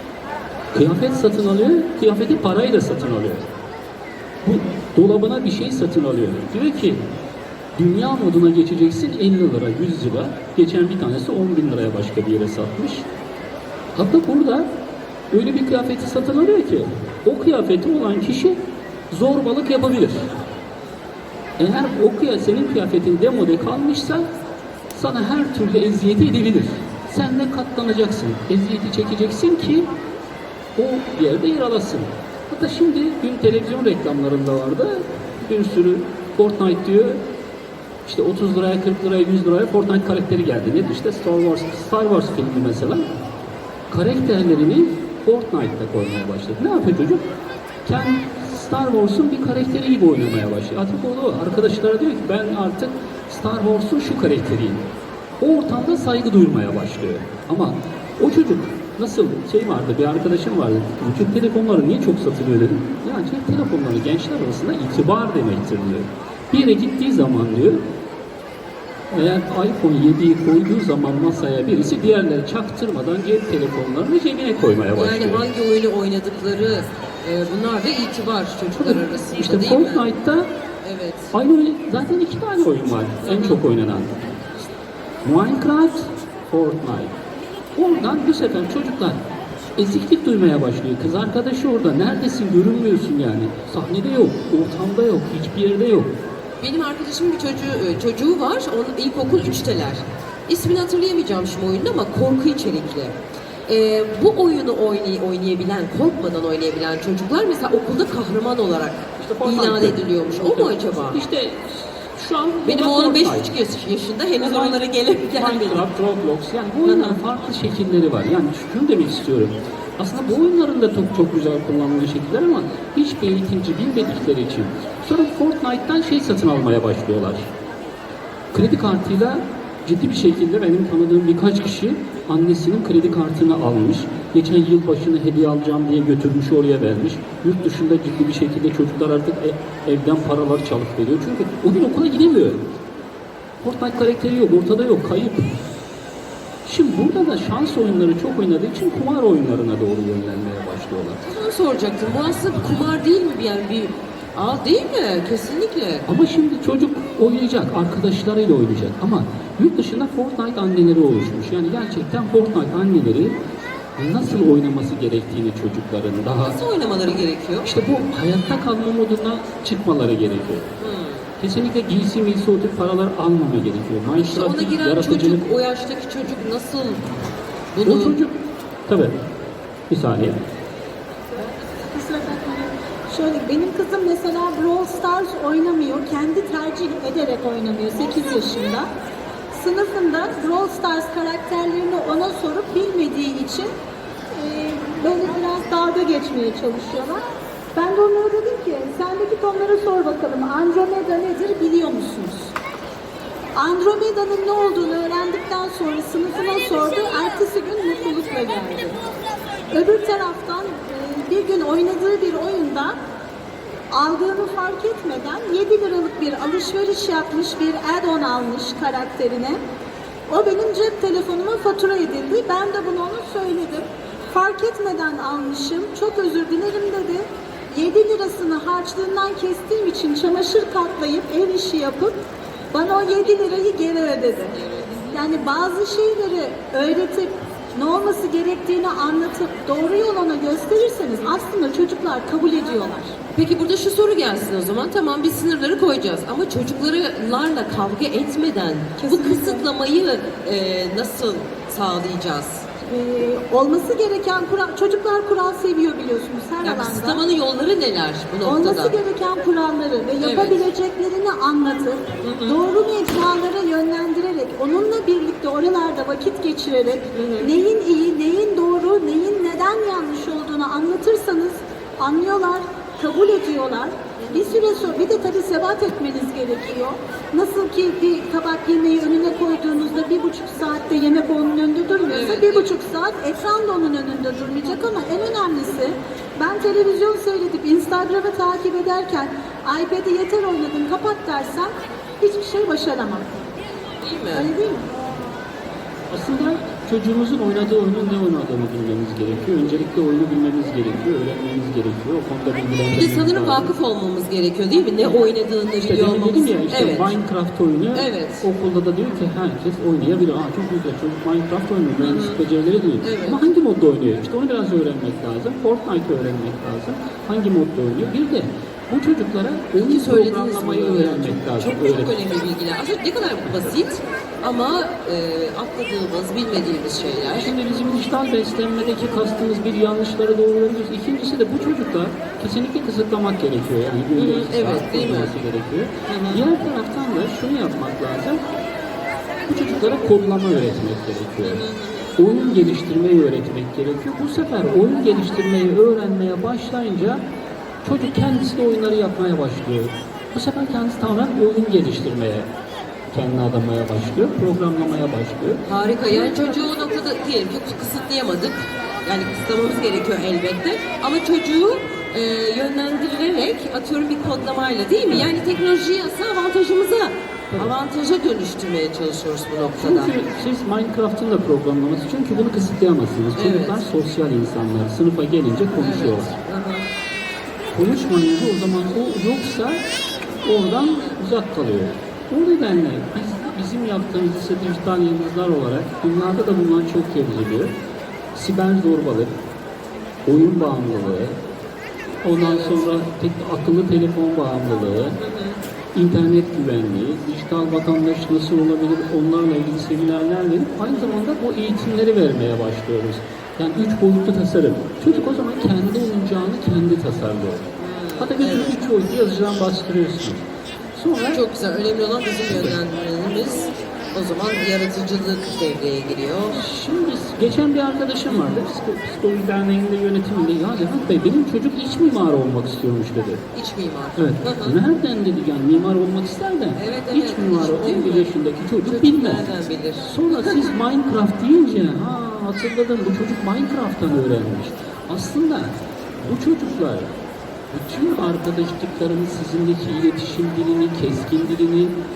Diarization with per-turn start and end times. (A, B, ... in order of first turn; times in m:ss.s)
0:00.7-0:03.5 A
0:04.4-0:07.0 A
0:07.8-0:13.1 A
0:14.0-0:14.7 A
0:15.3-0:20.4 A
0:21.6-0:24.3 A
0:24.9-0:29.9 A
0:30.8-0:37.2 A
0:38.0-0:43.1 A
0:43.9-0:47.3 A
0:47.8-0:54.9 A
0:55.4-1:07.9 A
1:09.1-1:15.4 A
1:15.0-1:20.1 B
1:18.8-1:20.5 A
1:20.8-1:21.3 B
1:21.3-1:24.5 A
1:23.2-1:23.6 B
1:25.2-1:27.1 A
1:27.8-1:29.2 A
1:29.8-1:36.1 A
1:36.6-1:43.2 B
1:43.7-1:51.2 B
1:49.2-1:53.5 A
1:52.6-1:55.8 B
1:54.4-1:54.8 A
1:55.4-2:07.5 A
1:56.8-1:57.2 B
2:08.5-2:22.7 A
2:23.6-2:25.5 A
2:26.6-2:31.2 A
2:31.2-2:36.1 B
2:36.1-2:43.4 A
2:44.0-2:46.6 A
2:46.4-2:47.8 B
2:47.6-2:50.7 A
2:50.8-2:51.3 B
2:51.4-2:55.4 A
2:54.1-2:57.0 B
2:57.7-2:58.2 B
2:57.8-2:59.2 A
2:59.9-3:00.4 A
3:01.4-3:08.9 C
3:09.5-3:13.7 C
3:14.3-3:17.2 C
3:17.8-3:22.6 C
3:23.6-3:29.0 C
3:29.7-3:33.0 C
3:33.9-3:39.6 C
3:40.3-3:52.1 C
3:52.7-3:54.6 C
3:53.1-3:53.6 B
3:54.6-3:55.1 B
3:55.1-4:03.2 C
4:03.3-4:12.7 B
4:09.0-4:09.6 C
4:12.8-4:17.2 C
4:16.6-4:19.0 B
4:18.4-4:53.3 C
4:20.2-4:20.6 B
4:22.2-4:22.6 B
4:27.2-4:27.5 B
4:34.2-4:34.6 B
4:42.1-4:42.7 B
4:54.0-4:54.5 B
4:54.3-4:54.9 C
4:56.1-5:03.7 A
5:02.9-5:07.1 B
5:05.8-5:22.2 A
5:07.9-5:08.4 B
5:12.0-5:12.4 B
5:13.0-5:13.4 B
5:19.8-5:27.5 B
5:27.3-5:38.4 A
5:34.2-5:35.3 B
5:36.1-5:36.4 B
5:39.5-5:41.6 A
5:41.4-5:42.1 B
5:42.2-5:47.2 A
5:47.8-5:52.5 A
5:53.1-5:56.6 A
5:55.6-6:10.1 B
6:09.8-6:16.4 A
6:13.4-6:13.8 B
6:15.8-6:16.8 B
6:17.7-6:19.8 A
6:20.4-6:27.7 A
6:28.3-6:29.3 A
6:30.3-6:31.4 A
6:32.2-6:35.2 A
6:32.4-6:32.8 B
6:35.2-6:35.6 B
6:35.9-6:47.7 A
6:45.1-6:45.4 B
6:47.8-6:48.8 B
6:48.2-6:51.4 A
6:51.3-6:56.6 B
6:52.5-6:52.8 A
6:56.6-7:03.4 A
6:58.3-6:58.6 B
7:03.5-7:04.8 B
7:04.2-7:09.5 A
7:06.8-7:08.3 B
7:08.8-7:10.7 B
7:10.0-7:17.1 A
7:17.7-7:22.0 A